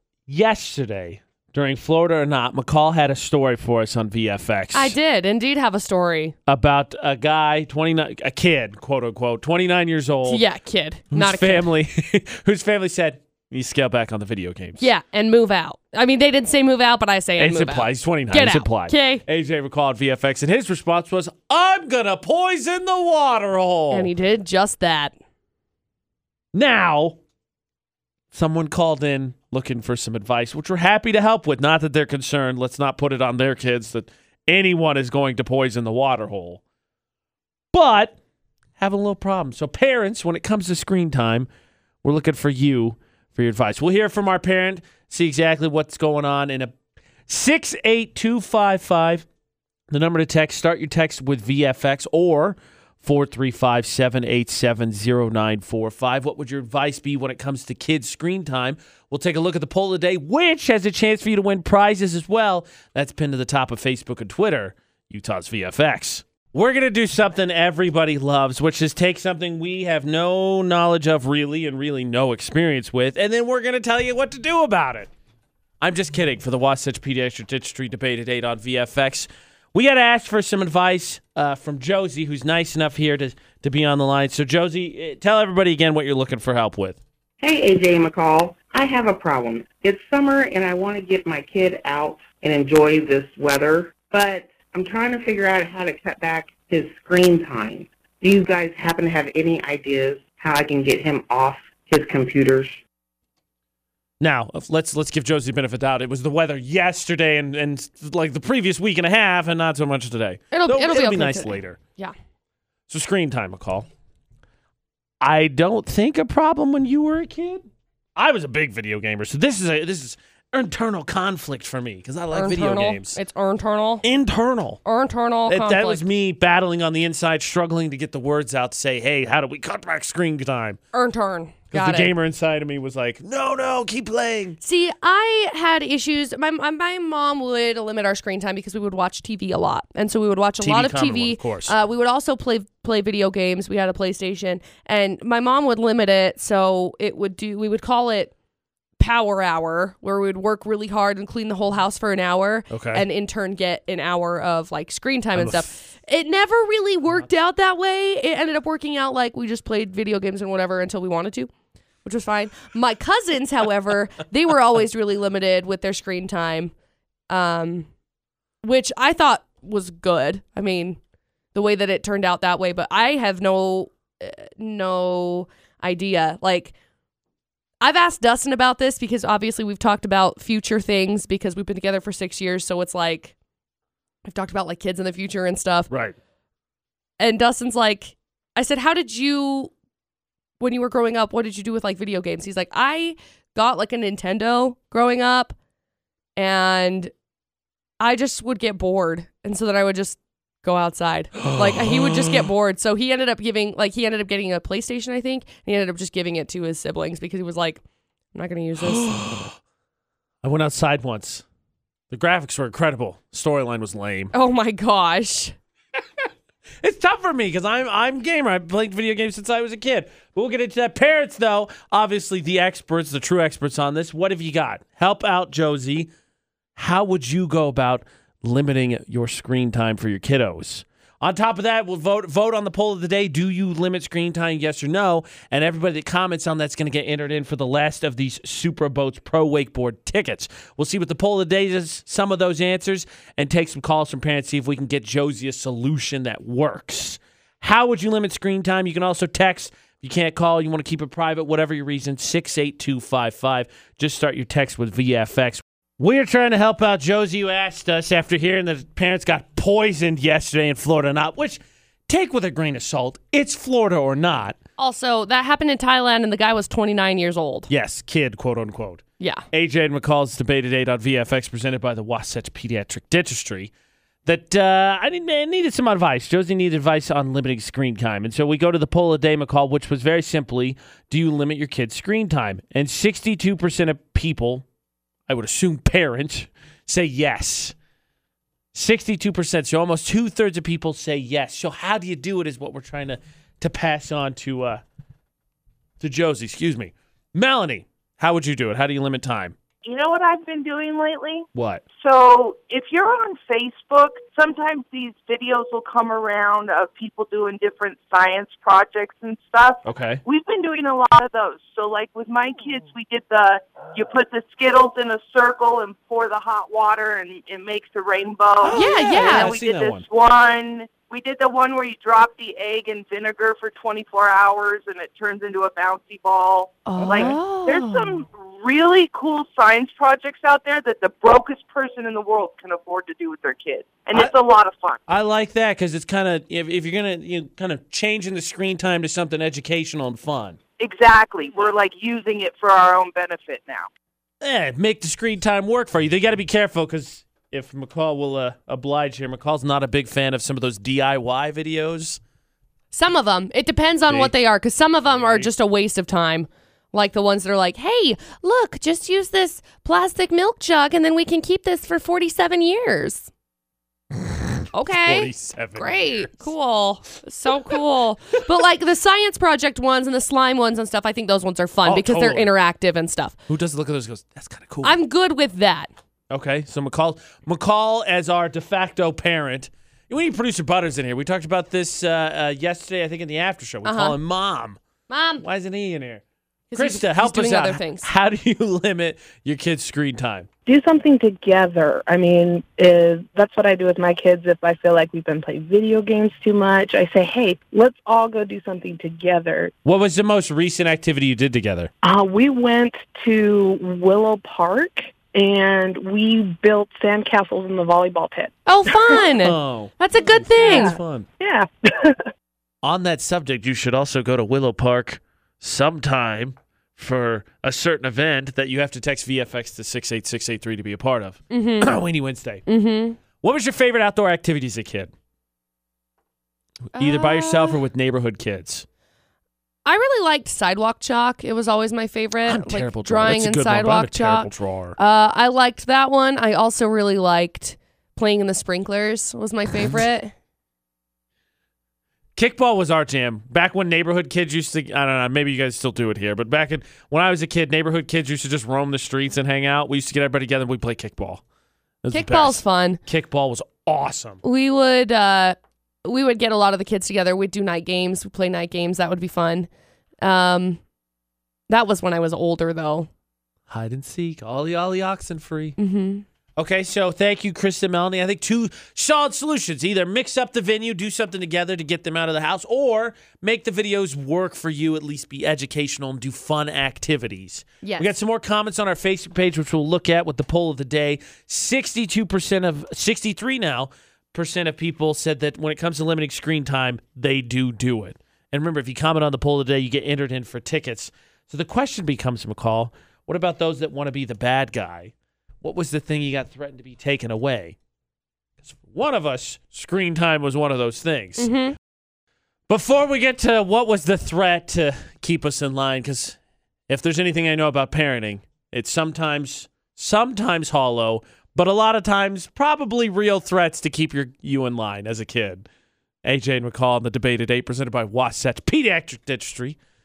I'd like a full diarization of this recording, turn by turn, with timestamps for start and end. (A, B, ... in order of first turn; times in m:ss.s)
0:00.3-0:05.0 A
0:04.7-0:06.4 B
0:06.5-0:10.4 A
0:10.2-0:11.7 B
0:11.1-0:14.9 A
0:14.8-0:19.2 B
0:17.4-0:24.1 A
0:23.9-0:25.2 B
0:26.5-0:27.2 A
0:28.3-0:36.6 A
0:37.7-0:38.2 A
0:38.8-0:41.5 A
0:42.0-0:46.7 A
0:47.3-0:49.3 A
0:49.9-1:15.1 A
1:15.8-1:27.0 A
1:27.4-1:42.8 C
1:44.2-1:51.8 A
1:50.5-1:52.1 B
1:52.9-1:53.9 A
1:55.2-2:03.2 A
2:02.3-2:04.0 B
2:04.0-2:04.8 A
2:04.9-2:06.0 B
2:05.5-2:10.8 A
2:10.9-2:12.1 B
2:11.7-2:14.6 A
2:14.6-2:28.3 B
2:20.6-2:21.7 A
2:29.0-2:41.5 B
2:32.7-2:33.0 A
2:35.4-2:35.7 A
2:42.0-2:46.7 B
2:47.3-2:47.9 B
2:48.6-2:51.0 B
2:51.5-2:56.7 B
2:57.8-3:03.4 B
3:04.3-3:05.9 B
3:05.9-3:06.2 A
3:07.2-3:09.7 B
3:10.6-3:15.6 B
3:16.4-3:17.1 B
3:18.0-3:27.8 B
3:21.5-3:22.1 A
3:28.3-3:29.5 B
3:28.8-3:29.6 A
3:30.4-3:31.4 A
3:32.1-3:34.3 A
3:34.3-3:35.6 B
3:36.8-3:46.1 A
3:46.8-4:24.6 A
4:24.8-4:27.7 B
4:27.7-4:33.7 A
4:34.3-4:44.7 A
4:45.3-4:47.8 A
4:48.7-4:54.8 A
4:56.0-4:59.6 A
4:59.8-5:01.5 D
5:01.5-5:01.8 A
5:02.0-5:35.0 D
5:09.8-5:10.2 A
5:18.6-5:20.0 A
5:18.7-5:19.5 B
5:26.8-5:28.2 B
5:27.0-5:27.4 A
5:35.1-5:40.6 A
5:40.8-5:43.9 D
5:44.4-5:52.2 A
5:52.9-6:03.3 B
5:54.1-5:54.3 A
5:55.1-5:55.5 A
6:04.7-6:13.4 B
6:04.9-6:06.5 A
6:11.8-6:12.5 A
6:13.5-6:15.0 A
6:14.8-6:15.9 B
6:16.3-6:24.8 A
6:23.8-6:24.2 B
6:25.1-6:25.4 B
6:25.4-6:26.2 A
6:26.7-6:28.1 B
6:26.8-6:30.5 A
6:30.7-6:39.7 E
6:39.8-6:41.9 A
6:42.0-6:49.2 E
6:48.7-6:51.0 B
6:49.4-6:49.9 A
6:50.5-6:51.3 A
6:50.6-6:52.3 E
6:52.8-7:02.6 A
7:01.5-7:02.0 B
7:02.7-7:03.2 B
7:03.4-7:05.1 A
7:06.9-7:08.8 A
7:07.0-7:07.8 B
7:09.8-7:20.3 B
7:12.5-7:15.0 A
7:22.4-7:31.4 A
7:32.0-7:34.4 A
7:32.1-7:33.0 B
7:34.4-7:39.7 B
7:40.2-7:40.8 B
7:41.7-7:43.1 B
7:43.7-7:45.8 A
7:45.8-7:46.2 B
7:46.6-8:17.8 A
7:57.8-7:58.2 B
8:18.6-8:21.5 A
8:21.4-8:21.8 B
8:22.7-8:26.4 A
8:26.9-8:35.7 A
8:36.2-8:39.8 A